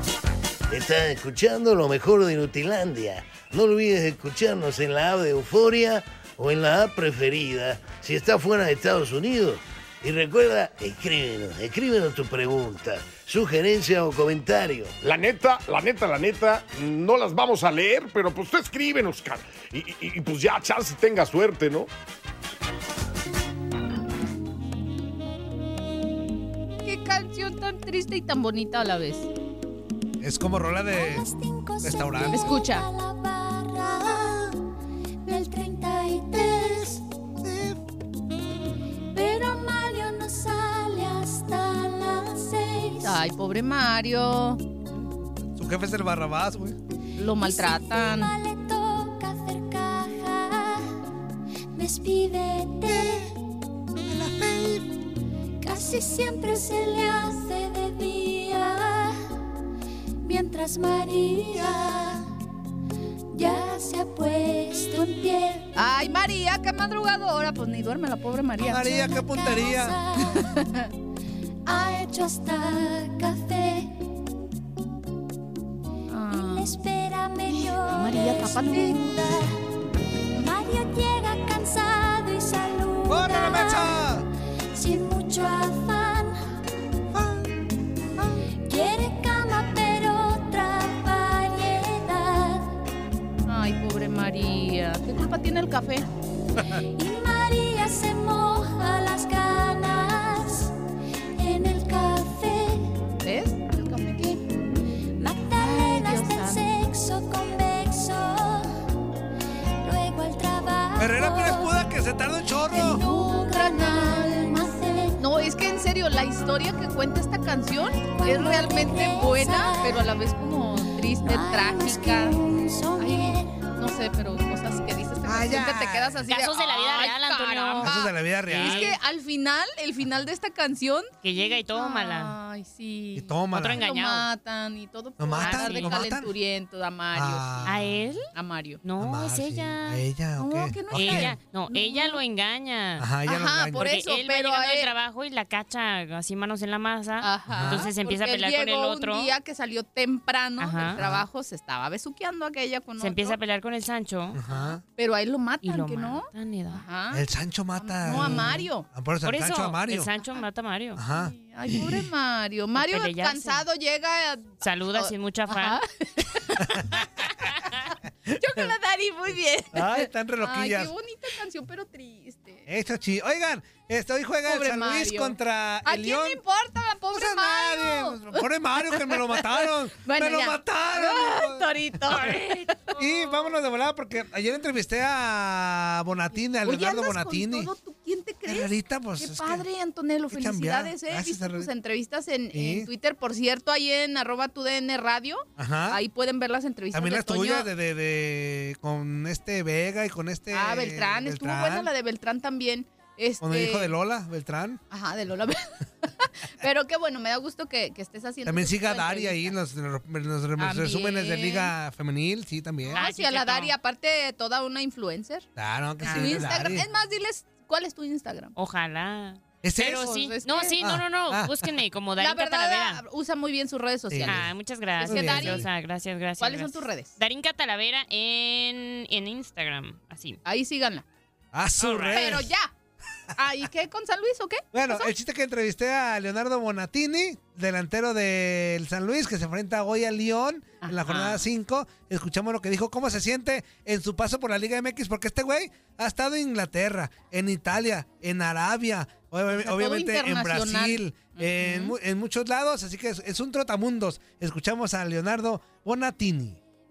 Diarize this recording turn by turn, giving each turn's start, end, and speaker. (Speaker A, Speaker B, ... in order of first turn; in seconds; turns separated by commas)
Speaker A: 0.7-15.0, Speaker B: 15.0-21.9, Speaker C: 26.9-29.3, Speaker D: 30.2-31.3, Speaker E: 30.9-34.6, Speaker D: 31.8-32.5, Speaker C: 32.3-32.9, Speaker E: 35.2-37.0, Speaker D: 36.5-36.8, Speaker D: 37.4-37.8, Speaker E: 39.1-43.2, Speaker C: 43.0-44.6, Speaker D: 45.5-46.8, Speaker C: 47.2-48.3, Speaker E: 47.4-50.9, Speaker E: 51.7-53.3, Speaker D: 52.8-53.3, Speaker D: 54.0-54.9, Speaker E: 55.6-59.2, Speaker E: 60.2-62.3, Speaker E: 63.3-65.7, Speaker C: 65.8-68.9, Speaker D: 68.6-70.0, Speaker E: 68.8-70.6, Speaker C: 70.3-70.9, Speaker E: 71.7-74.0, Speaker C: 76.1-76.7, Speaker E: 76.3-79.6, Speaker C: 77.5-79.1, Speaker E: 80.3-84.1, Speaker D: 83.1-84.3, Speaker E: 84.7-86.6, Speaker D: 87.1-87.6, Speaker E: 88.7-92.7, Speaker C: 93.5-96.1, Speaker E: 97.0-100.8, Speaker E: 101.4-102.9, Speaker C: 103.2-104.6, Speaker E: 105.2-108.7, Speaker C: 105.5-106.6, Speaker E: 109.8-111.9, Speaker D: 111.0-113.0, Speaker E: 112.7-115.2, Speaker C: 112.7-114.6, Speaker C: 115.2-122.4, Speaker E: 118.1-120.2, Speaker E: 121.0-123.6, Speaker C: 123.0-131.1, Speaker D: 125.2-126.3, Speaker F: 126.3-127.9, Speaker D: 127.8-129.0, Speaker F: 128.5-129.0, Speaker F: 131.2-132.4, Speaker C: 131.7-137.7, Speaker D: 133.2-133.8, Speaker F: 133.5-134.3, Speaker D: 135.2-136.3, Speaker F: 135.4-135.9, Speaker D: 137.1-138.0, Speaker F: 137.7-138.3, Speaker C: 138.3-138.8, Speaker F: 138.8-140.0, Speaker D: 139.0-141.3, Speaker C: 140.4-142.2, Speaker F: 140.9-143.1, Speaker D: 143.0-143.9, Speaker C: 143.3-144.9, Speaker F: 143.8-149.3, Speaker C: 147.2-153.4, Speaker D: 147.5-147.9, Speaker F: 150.6-151.0, Speaker D: 151.0-151.3, Speaker F: 153.0-154.4, Speaker D: 154.3-154.8, Speaker C: 154.5-157.2, Speaker F: 155.6-156.8, Speaker D: 157.1-160.1, Speaker C: 157.8-158.9, Speaker F: 159.2-161.0, Speaker D: 161.0-161.9, Speaker C: 161.1-172.7, Speaker F: 162.8-163.6, Speaker F: 164.6-165.8, Speaker D: 168.3-168.7, Speaker D: 169.7-170.9, Speaker D: 172.7-176.4, Speaker C: 174.5-182.9, Speaker D: 177.1-182.4, Speaker F: 182.1-183.5, Speaker D: 182.9-187.7, Speaker C: 186.6-197.7, Speaker D: 188.4-189.7, Speaker D: 190.3-191.7, Speaker D: 192.5-192.9, Speaker D: 195.6-196.0, Speaker D: 196.9-201.9, Speaker C: 200.5-203.9, Speaker D: 203.4-204.8, Speaker C: 204.9-209.6, Speaker D: 208.4-213.0, Speaker C: 210.6-211.7, Speaker C: 212.9-215.5, Speaker F: 213.0-213.7, Speaker D: 215.6-216.9, Speaker F: 216.0-216.5, Speaker C: 216.1-218.5, Speaker F: 218.6-223.0, Speaker D: 219.6-220.1, Speaker C: 219.8-220.8, Speaker D: 220.8-221.6, Speaker C: 222.2-224.4, Speaker D: 224.1-224.5, Speaker F: 224.3-230.4, Speaker C: 225.0-225.7, Speaker D: 225.0-225.7, Speaker C: 226.4-227.1, Speaker C: 230.4-231.1, Speaker D: 231.5-232.5, Speaker F: 231.8-232.4, Speaker C: 232.1-232.7, Speaker C: 233.4-235.1, Speaker D: 234.7-256.6, Speaker C: 240.8-241.3, Speaker C: 249.5-252.0